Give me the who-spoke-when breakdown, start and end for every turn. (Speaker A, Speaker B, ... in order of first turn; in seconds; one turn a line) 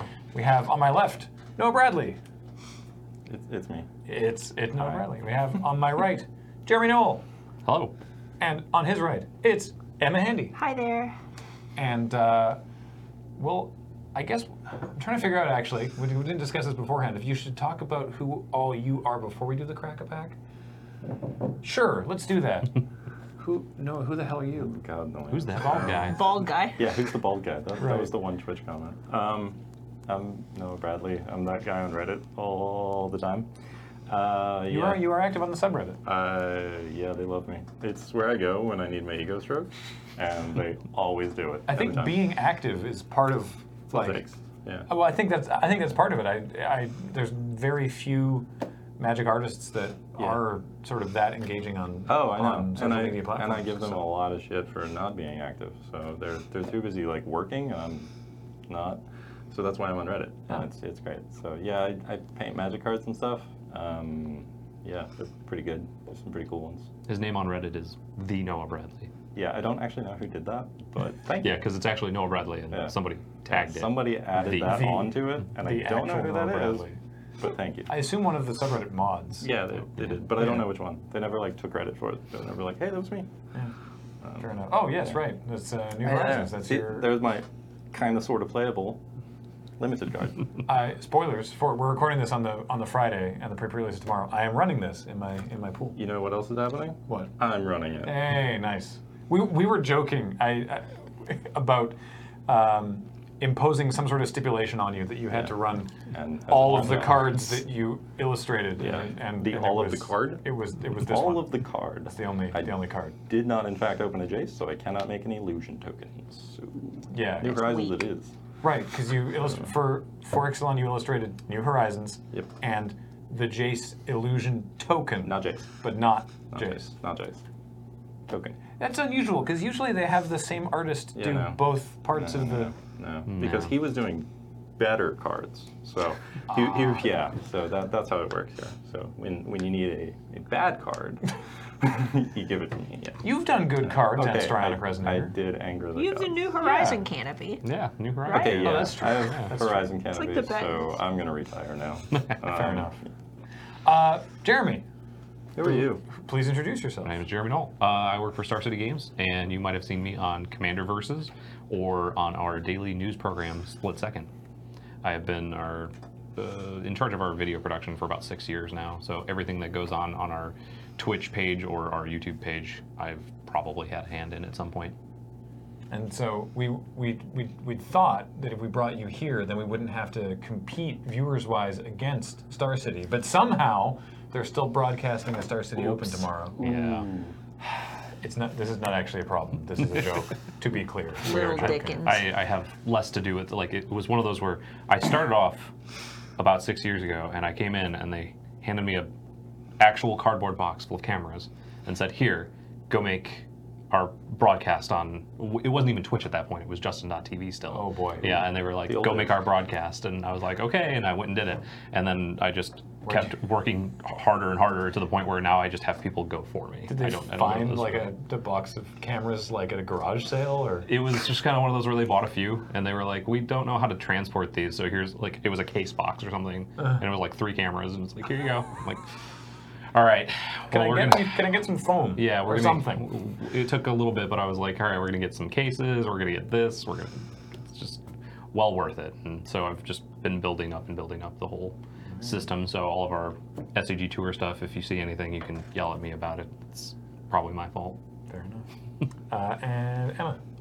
Speaker A: 0.3-2.2
Speaker B: 3.2-3.9
Speaker A: 4.1-7.2
Speaker C: 7.7-8.0
Speaker A: 8.4-10.5
Speaker D: 10.5-11.1
Speaker A: 11.8-12.6
Speaker A: 13.4-20.4
Speaker A: 21.6-22.8
Speaker A: 23.4-24.8
Speaker B: 24.6-26.1
Speaker C: 25.3-26.5
Speaker A: 25.6-26.1
Speaker D: 26.0-26.9
Speaker B: 26.8-33.5
Speaker A: 27.8-28.1
Speaker B: 34.1-35.0
Speaker A: 34.7-36.0
Speaker B: 36.0-42.2
Speaker A: 41.7-44.2
Speaker B: 43.9-44.9
Speaker A: 44.9-54.0
Speaker B: 52.1-58.1
Speaker B: 58.7-66.9
Speaker C: 67.1-69.1
Speaker B: 69.3-71.6
Speaker C: 71.4-75.0
Speaker B: 73.5-76.8
Speaker A: 74.6-77.0
Speaker B: 77.4-77.9
Speaker A: 77.9-79.5
Speaker B: 79.4-83.3
Speaker A: 80.4-80.7
Speaker B: 84.2-84.5
Speaker A: 84.4-87.1
Speaker B: 86.0-89.0
Speaker B: 89.8-90.5
Speaker A: 90.7-96.0
Speaker B: 96.0-98.2
Speaker A: 98.0-106.0
Speaker B: 106.1-107.5
Speaker A: 106.5-113.2
Speaker B: 108.8-112.7
Speaker B: 113.3-118.3
Speaker A: 117.1-117.6
Speaker D: 117.4-118.1
Speaker A: 118.6-126.8
Speaker B: 125.2-125.7
Speaker B: 126.5-127.4
Speaker B: 128.3-128.6
Speaker A: 128.8-132.7
Speaker B: 131.1-131.6
Speaker B: 132.1-143.3
Speaker C: 133.3-133.7
Speaker A: 136.5-137.0
Speaker A: 143.2-145.3
Speaker B: 143.8-146.4
Speaker D: 145.9-147.6
Speaker A: 146.6-147.0
Speaker C: 147.6-149.5
Speaker D: 148.2-148.7
Speaker B: 148.3-153.1
Speaker A: 148.5-149.9
Speaker D: 150.1-151.0
Speaker C: 152.1-152.4
Speaker A: 152.4-153.0
Speaker A: 153.8-154.8
Speaker B: 155.6-156.0
Speaker A: 155.6-157.2
Speaker C: 157.0-164.3
Speaker C: 165.0-174.9
Speaker A: 175.9-186.7
Speaker B: 185.8-187.3
Speaker C: 186.6-187.1
Speaker A: 188.2-192.0
Speaker D: 191.2-192.2
Speaker C: 191.5-195.7
Speaker C: 196.4-199.1
Speaker C: 199.8-218.1
Speaker A: 207.7-208.3
Speaker B: 208.3-209.3
Speaker A: 213.1-213.3
Speaker A: 216.9-220.9
Speaker C: 220.9-229.1
Speaker C: 229.9-231.4
Speaker A: 230.7-233.0
Speaker C: 232.2-238.0
Speaker C: 238.5-248.0
Speaker A: 248.3-248.6
Speaker A: 249.3-250.4